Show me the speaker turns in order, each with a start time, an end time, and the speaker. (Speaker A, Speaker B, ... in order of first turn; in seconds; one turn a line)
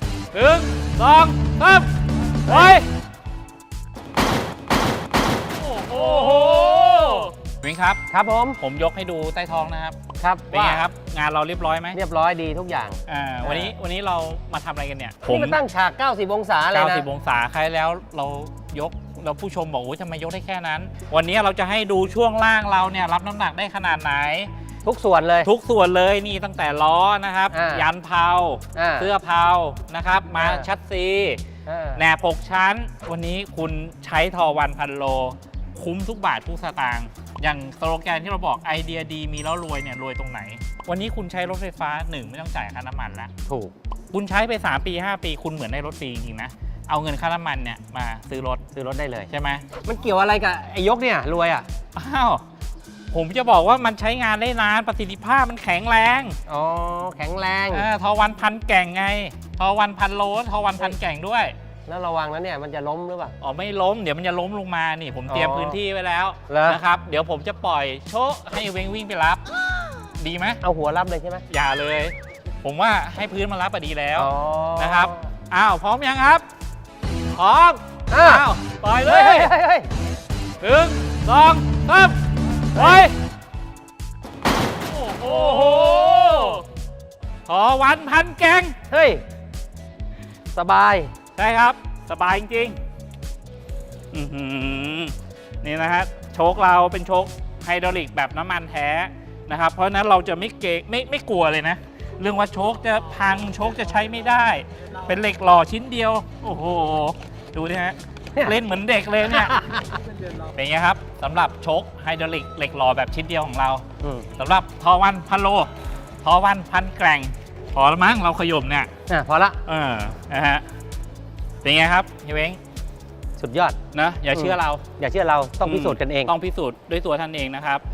Speaker A: 0.3-1.9
Speaker B: 2.5-2.8
Speaker A: 2.5-2.9
Speaker A: 5.6-8.0
Speaker B: 5.9-7.3
Speaker B: 8.1-8.6
Speaker A: 8.6-10.0
Speaker B: 10.2-10.8
Speaker A: 10.5-12.0
Speaker B: 11.9-13.7
Speaker A: 13.1-15.6
Speaker B: 15.2-17.1
Speaker A: 16.7-24.5
Speaker B: 24.8-25.5
Speaker A: 25.4-31.4
Speaker B: 27.5-27.9
Speaker B: 28.7-29.1
Speaker B: 30.4-30.7
Speaker B: 31.6-32.0
Speaker A: 31.9-43.3
Speaker B: 43.5-43.7
Speaker A: 44.1-48.6
Speaker B: 48.7-49.3
Speaker A: 49.3-49.7
Speaker B: 49.8-51.6
Speaker A: 51.9-52.4
Speaker A: 53.1-56.4
Speaker B: 56.5-57.9
Speaker A: 57.7-61.5
Speaker B: 61.9-63.4
Speaker A: 63.4-69.4
Speaker B: 65.3-65.8
Speaker B: 66.5-66.8
Speaker A: 70.1-70.6
Speaker B: 70.6-71.4
Speaker A: 71.5-76.5
Speaker B: 74.2-75.2
Speaker A: 77.3-79.5
Speaker B: 78.1-78.5
Speaker B: 79.0-79.9
Speaker A: 80.6-83.2
Speaker A: 84.9-86.6
Speaker B: 85.2-86.6
Speaker A: 87.5-88.8
Speaker B: 88.9-89.2
Speaker B: 90.5-91.1
Speaker A: 91.3-92.8
Speaker A: 94.1-109.7
Speaker B: 109.5-109.9
Speaker A: 110.5-113.8
Speaker B: 114.0-114.3
Speaker A: 114.4-115.7
Speaker A: 116.2-118.9
Speaker B: 119.1-119.6
Speaker A: 119.7-120.6
Speaker A: 121.6-122.6
Speaker B: 123.4-123.8
Speaker A: 123.9-124.8
Speaker B: 124.3-126.3
Speaker A: 125.6-127.8